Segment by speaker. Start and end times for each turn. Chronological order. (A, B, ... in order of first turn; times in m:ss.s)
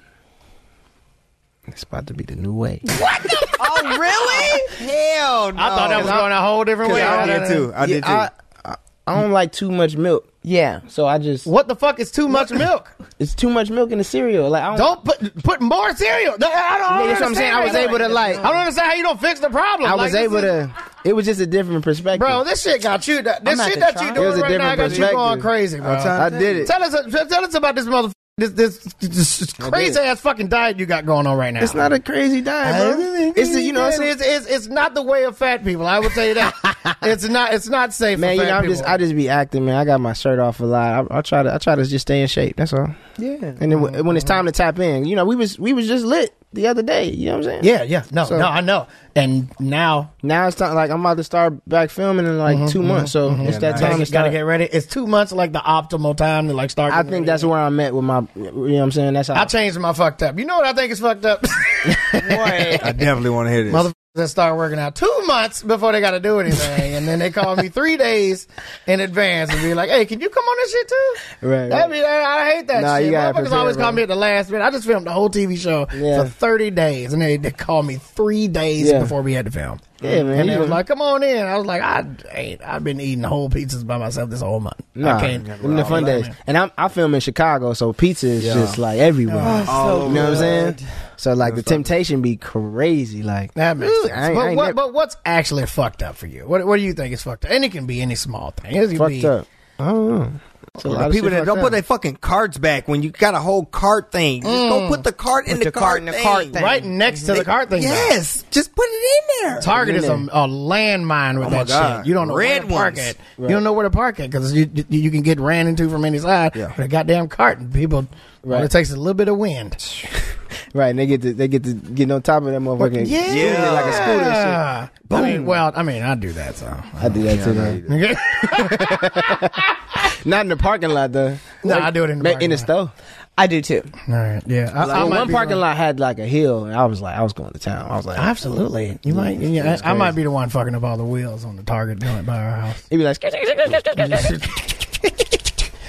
0:01.7-0:02.8 A
0:03.6-0:04.7 B
0:04.6-0:08.3 C
0:05.6-0:07.6 D
0:06.0-0:06.2 A
0:06.8-0:10.3 A
0:10.4-0:10.8 B
0:10.9-0:11.5 A
0:11.4-0:12.9 D
0:13.2-0:15.0 A
0:14.7-0:20.6 D
0:16.9-0:18.5 A
0:17.1-0:18.6 B
0:19.8-0:22.4 A
0:22.1-0:31.9 D
0:23.4-0:25.0 B
0:24.1-0:26.7 A
0:24.7-0:25.1 C
0:25.8-0:26.7 C
0:29.6-0:30.0 A
0:31.6-0:34.1 A
0:32.6-0:39.0 D
0:38.2-0:47.7 A
0:43.7-0:44.4 D
0:47.6-0:50.1 D
0:48.2-0:48.5 A
0:50.2-0:54.4 A
0:52.5-0:57.5 D
0:53.4-0:54.1 C
0:56.9-0:59.5 A
0:59.3-1:02.7 D
1:02.2-1:02.9 B
1:02.8-1:03.9 C
1:03.7-1:26.3 D
1:11.4-1:11.9 A
1:12.8-1:14.0 A
1:15.9-1:16.3 A
1:18.8-1:19.1 A
1:20.0-1:20.8 A
1:20.0-1:20.5 C
1:25.0-1:34.8 A
1:25.3-1:26.1 C
1:28.4-1:28.8 C
1:29.3-1:29.7 D
1:29.4-1:30.8 B
1:29.6-1:30.7 C
1:31.4-1:31.9 C
1:33.5-1:39.3 D
1:38.9-1:41.8 A
1:40.8-1:46.5 C
1:44.4-1:45.0 D
1:45.4-1:47.4 B
1:46.5-1:48.2 D
1:47.3-1:49.8 C
1:49.6-1:59.8 D
1:49.6-1:50.2 A
1:51.4-1:53.1 C
1:53.4-1:53.6 A
1:58.4-1:58.7 A
2:00.7-2:05.5 A
2:02.8-2:07.2 D
2:03.2-2:04.2 C
2:07.0-2:07.8 A
2:07.2-2:07.9 C
2:07.8-2:09.6 D
2:08.4-2:09.5 A
2:10.2-2:12.9 A
2:11.6-2:12.7 D
2:13.4-2:13.9 B
2:14.0-2:15.6 D
2:14.8-2:18.3 A
2:14.8-2:15.4 C
2:18.2-2:22.8 D
2:19.1-2:20.1 A
2:22.9-2:24.3 A
2:23.9-2:25.5 D